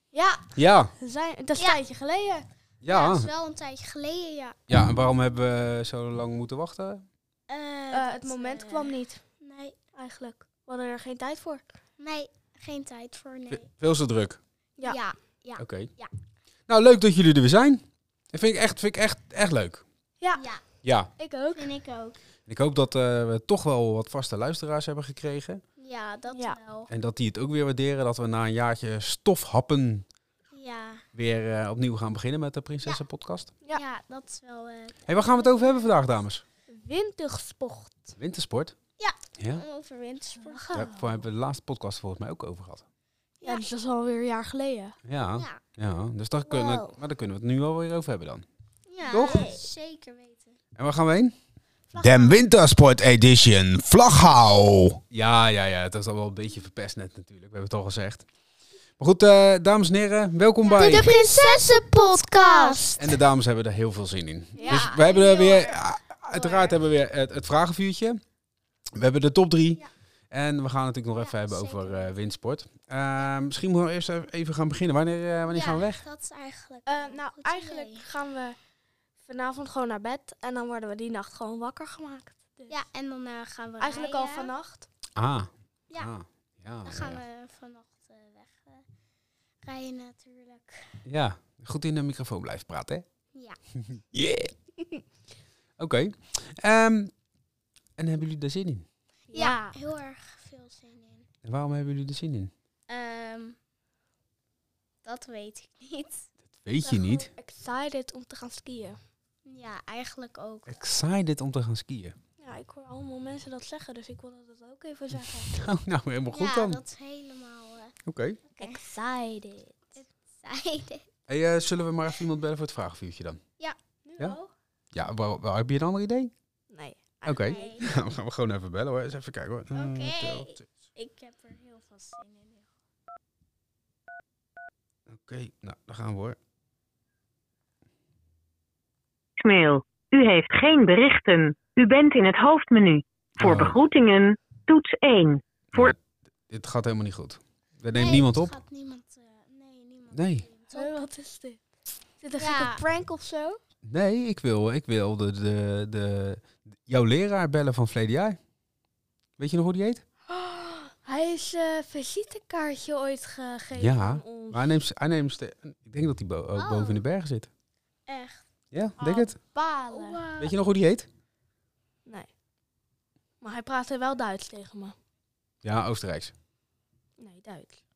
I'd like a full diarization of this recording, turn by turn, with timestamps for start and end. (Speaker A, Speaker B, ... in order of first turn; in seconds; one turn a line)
Speaker A: 0.1-2.4
Speaker B: 0.5-0.9
Speaker B: 2.8-3.3
Speaker C: 2.9-4.5
Speaker B: 4.7-7.0
Speaker C: 7.5-9.8
Speaker A: 7.9-9.2
Speaker A: 9.9-11.6
Speaker C: 12.0-13.7
Speaker B: 13.5-14.4
Speaker C: 14.8-16.1
Speaker B: 15.6-15.9
Speaker B: 16.7-19.8
Speaker A: 20.2-20.4
Speaker C: 20.4-20.6
Speaker B: 20.8-21.1
Speaker A: 21.2-21.7
Speaker C: 21.5-22.2
Speaker B: 22.5-25.6
Speaker C: 25.8-26.9
Speaker A: 26.3-26.6
Speaker B: 26.9-30.1
Speaker C: 30.5-31.0
Speaker B: 31.1-33.5
Speaker C: 33.7-36.0
Speaker B: 35.1-36.4
Speaker A: 36.7-38.1
Speaker B: 38.2-38.7
Speaker C: 39.0-40.8
Speaker B: 39.4-39.6
Speaker A: 40.4-41.0
Speaker B: 40.7-42.8
Speaker C: 43.4-43.6
Speaker A: 43.4-45.0
Speaker B: 45.0-48.4
Speaker C: 45.4-45.6
Speaker A: 46.4-47.0
Speaker C: 48.9-50.5
Speaker A: 49.1-49.5
Speaker B: 49.1-49.5
Speaker B: 50.8-51.3
Speaker A: 51.9-52.5
Speaker B: 52.0-58.2
Speaker B: 59.0-61.1
Speaker C: 60.6-63.0
Speaker A: 60.8-63.0
Speaker B: 63.0-68.2
Speaker A: 64.5-65.0
Speaker C: 64.6-65.8
Speaker A: 66.3-66.6
Speaker B: 69.0-76.0
Speaker C: 71.1-72.2
Speaker C: 75.5-78.0
Speaker A: 76.8-78.6
Speaker A: 79.2-82.8
Speaker C: 82.7-84.5
Speaker A: 83.8-84.9
Speaker B: 85.2-87.2
Speaker C: 86.8-88.8
Speaker C: 89.6-90.8
Speaker B: 91.0-93.0
Speaker B: 93.8-94.5
Speaker B: 95.8-97.1
Speaker B: 98.0-98.8
Speaker A: 99.3-99.6
Speaker C: 99.3-101.2
Speaker B: 101.4-102.5
Speaker C: 102.9-103.6
Speaker C: 105.0-106.3
Speaker B: 106.5-107.3
Speaker A: 106.8-109.0
Speaker C: 109.5-110.8
Speaker B: 110.7-112.1
Speaker A: 112.4-115.5
Speaker B: 115.5-116.8
Speaker C: 116.3-117.9
Speaker B: 118.1-118.4
Speaker C: 118.5-118.8
Speaker A: 118.6-119.8
Speaker C: 120.0-121.0
Speaker B: 121.3-123.4
Speaker A: 124.0-124.5
Speaker B: 124.9-126.3
Speaker A: 126.7-127.8
Speaker B: 127.2-130.7
Speaker C: 127.5-127.8
Speaker C: 129.7-132.7
Speaker B: 135.1-136.4
Speaker D: 139.4-145.9
Speaker B: 143.4-143.8
Speaker B: 145.7-146.0
Speaker B: 146.5-148.6
Speaker C: 147.9-150.9
Speaker B: 150.1-150.4
Speaker A: 150.7-151.6
Speaker A: 152.2-153.6
Speaker C: 152.3-152.8
Speaker B: 153.8-158.4
Speaker B: 159.4-160.0
Speaker A: 160.3-164.8
Speaker B: 163.7-167.5
Speaker C: 166.6-167.0
Speaker C: 168.1-168.4
Speaker B: 168.7-169.4
Speaker A: 169.0-170.2
Speaker C: 169.6-170.5
Speaker B: 170.4-171.1
Speaker A: 173.4-174.9
Speaker B: 175.6-176.3
Speaker A: 177.2-177.8